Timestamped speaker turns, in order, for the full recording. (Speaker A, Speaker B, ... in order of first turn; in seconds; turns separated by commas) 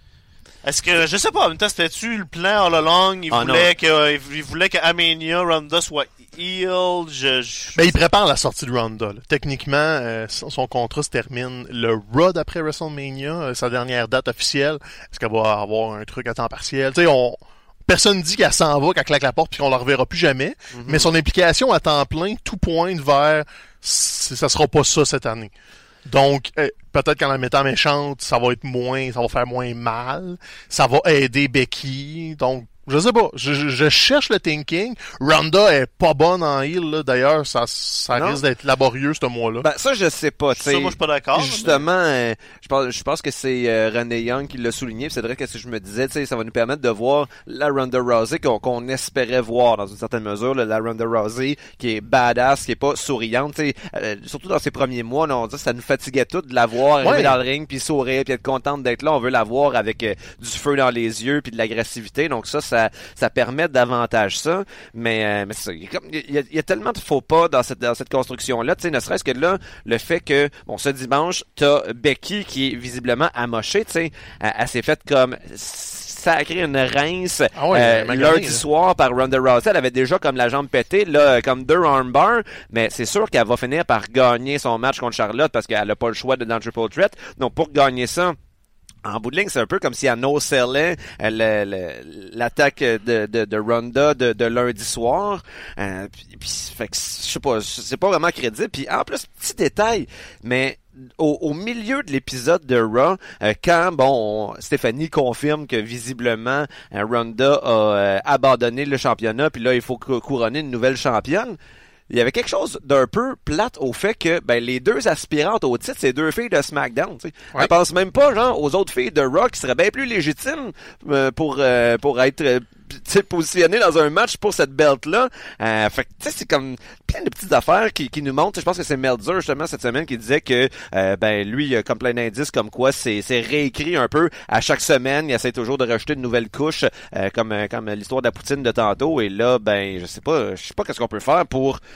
Speaker A: 0.6-8.0, Speaker B: 3.3-3.7, Speaker C: 7.7-25.5, Speaker B: 20.7-21.1, Speaker C: 26.1-39.7, Speaker B: 38.1-38.4, Speaker B: 39.6-88.4, Speaker A: 40.5-41.9, Speaker C: 57.0-57.4, Speaker C: 77.5-78.6, Speaker B: 89.0-111.6, Speaker B: 112.1-141.8